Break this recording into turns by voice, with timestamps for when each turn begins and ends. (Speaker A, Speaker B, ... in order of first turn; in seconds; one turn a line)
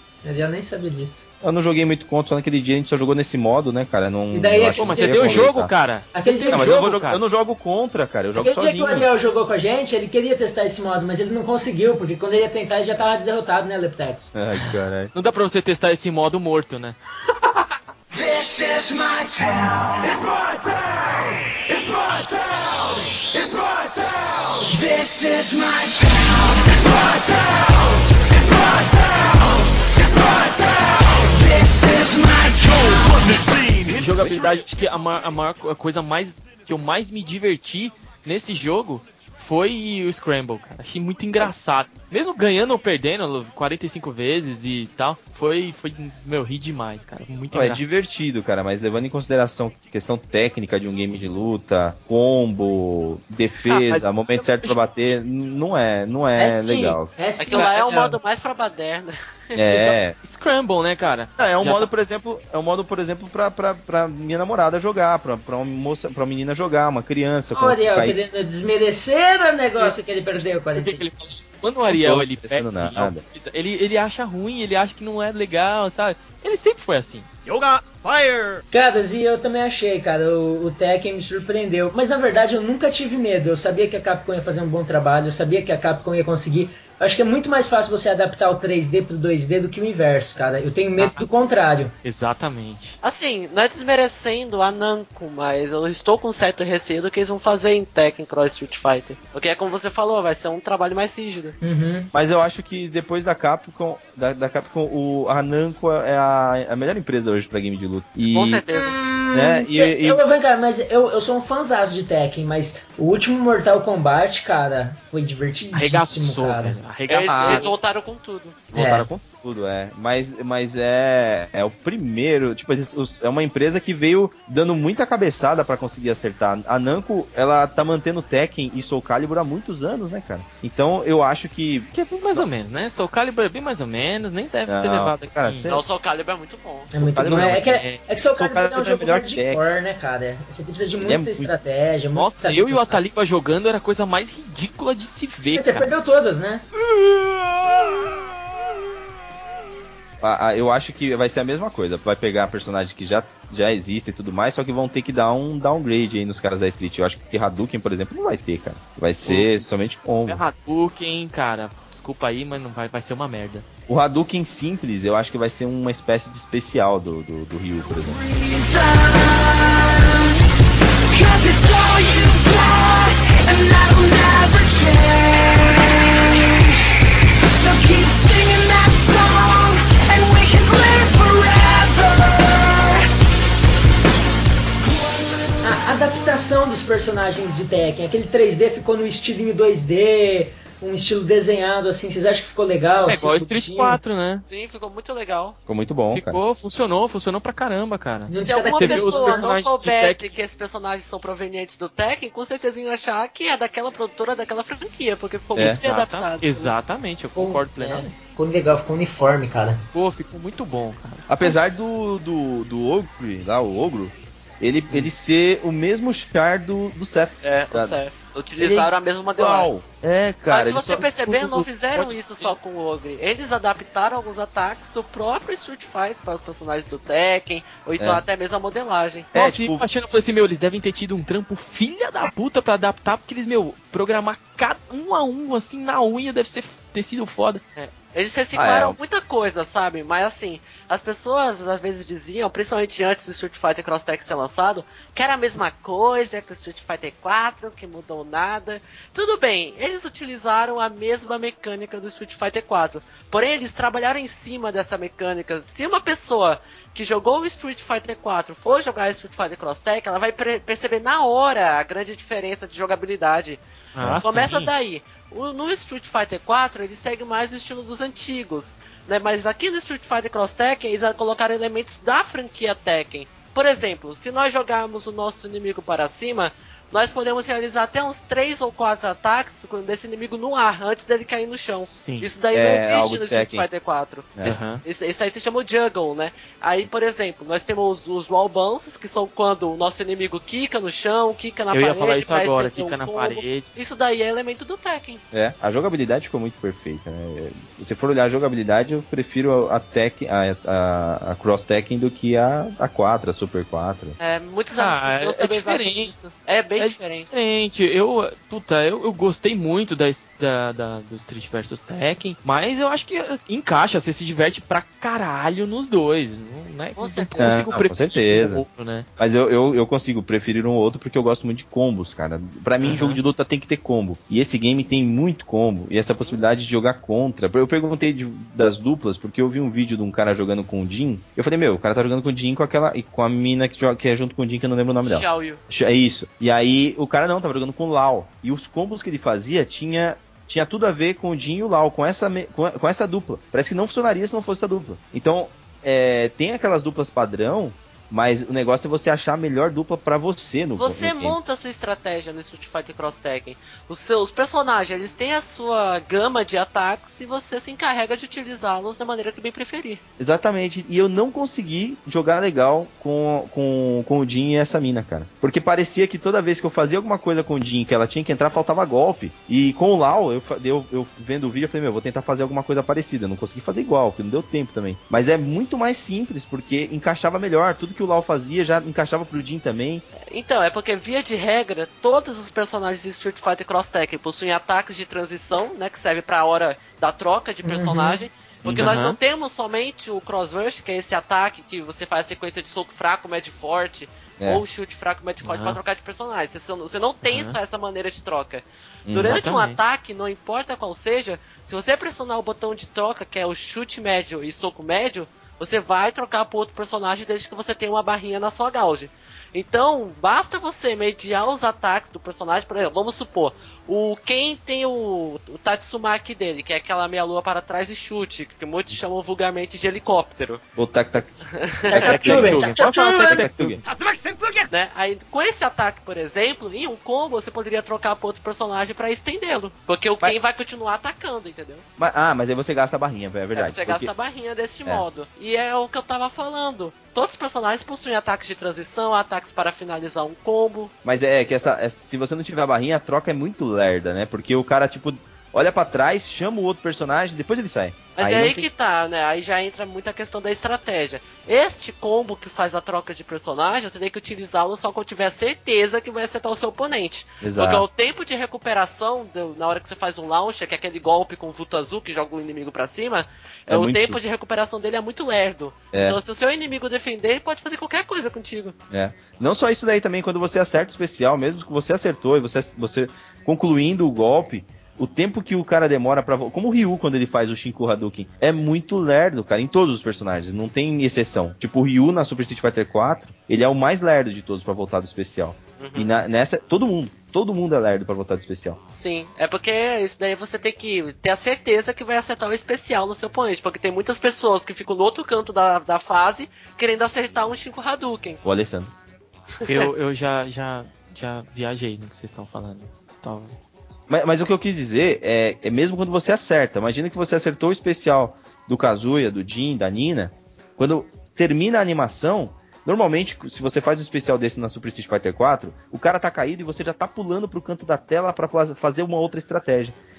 Speaker A: 0.2-1.3
Speaker B: 1.4-5.7
Speaker A: 4.3-5.3
Speaker C: 4.8-7.2
Speaker A: 6.1-6.7
Speaker B: 6.5-9.1
Speaker A: 8.3-14.3
Speaker B: 14.3-15.1
Speaker C: 15.1-17.0
Speaker D: 18.1-20.5
Speaker D: 21.7-22.3
Speaker D: 23.0-23.7
Speaker D: 24.5-27.7
Speaker D: 28.3-33.2
Speaker E: 32.9-34.6
Speaker C: 33.9-47.9
Speaker B: 47.5-57.1
Speaker C: 53.7-54.8
Speaker A: 56.4-58.1
Speaker F: 57.4-59.6
Speaker B: 59.5-60.1
Speaker C: 59.7-61.9
Speaker B: 61.4-68.2
Speaker A: 67.5-71.1
Speaker C: 69.8-77.3
Speaker B: 71.9-73.2
Speaker E: 77.5-78.5
Speaker A: 78.7-91.9
Speaker C: 91.0-91.4
Speaker C: 92.0-93.0
Speaker F: 93.0-101.5
Speaker A: 101.6-102.1
Speaker B: 102.1-108.6
Speaker F: 108.2-109.0
Speaker A: 108.7-116.8
Speaker B: 109.3-110.2
Speaker C: 115.7-117.7
Speaker F: 117.1-118.7
Speaker B: 117.3-117.7
Speaker A: 118.7-119.1
Speaker B: 118.7-132.5
Speaker C: 118.8-119.1
Speaker C: 131.9-135.7
Speaker B: 134.7-135.8
Speaker F: 135.7-136.9
Speaker A: 136.9-143.0
Speaker B: 137.0-137.8
Speaker C: 137.2-138.0
Speaker B: 138.3-139.6
Speaker B: 141.0-141.5
Speaker C: 142.2-145.9
Speaker A: 145.5-146.6
Speaker B: 150.2-160.4
Speaker C: 159.2-159.7
Speaker C: 160.3-163.6
Speaker B: 163.9-168.2
Speaker D: 168.0-170.3
Speaker D: 171.1-176.8
Speaker D: 177.5-183.0
Speaker D: 184.9-185.5
Speaker A: 185.6-194.0
Speaker C: 193.1-194.4
Speaker F: 194.5-195.6
Speaker B: 195.7-196.4
Speaker C: 196.1-200.3
Speaker A: 198.3-199.4
Speaker F: 198.4-206.7
Speaker B: 205.6-205.8
Speaker C: 205.6-208.1
Speaker A: 207.3-209.8
Speaker C: 209.9-211.5
Speaker B: 211.3-218.0
Speaker F: 217.4-219.7
Speaker B: 218.6-222.1
Speaker F: 220.5-229.3
Speaker C: 221.9-222.5
Speaker B: 229.3-229.8
Speaker C: 229.3-237.6
Speaker F: 237.8-263.6
Speaker B: 238.5-239.0
Speaker C: 263.9-264.7
Speaker F: 264.2-295.2
Speaker C: 281.7-282.3
Speaker B: 282.5-283.6
Speaker B: 284.4-284.6
Speaker C: 284.4-284.8
Speaker C: 291.7-293.7
Speaker B: 295.3-304.1
Speaker F: 304.2-307.3
Speaker C: 304.7-306.1
Speaker C: 306.8-319.1
Speaker F: 316.9-317.6
Speaker B: 317.4-318.6
Speaker B: 319.2-351.4
Speaker C: 322.8-323.2
Speaker F: 335.0-335.6
Speaker F: 350.8-360.0
Speaker B: 360.2-380.0
Speaker F: 380.3-420.6
Speaker A: 387.6-388.2
Speaker B: 388.6-388.9
Speaker C: 388.8-389.1
Speaker C: 395.4-395.8
Speaker C: 397.2-397.6
Speaker B: 399.1-399.4
Speaker C: 399.2-399.8
Speaker B: 420.8-422.6
Speaker F: 421.6-422.0
Speaker A: 421.9-423.4
Speaker C: 421.9-423.8
Speaker B: 423.3-423.8
Speaker F: 424.7-431.8
Speaker B: 432.0-434.1
Speaker F: 433.5-440.9
Speaker B: 441.0-448.7
Speaker F: 448.1-468.8
Speaker B: 457.4-457.9
Speaker B: 463.7-464.2
Speaker B: 465.9-466.2
Speaker B: 468.9-488.8
Speaker F: 485.8-486.1
Speaker F: 488.9-498.4
Speaker B: 498.4-498.9
Speaker F: 499.6-499.9
Speaker C: 499.7-503.6
Speaker B: 504.1-520.0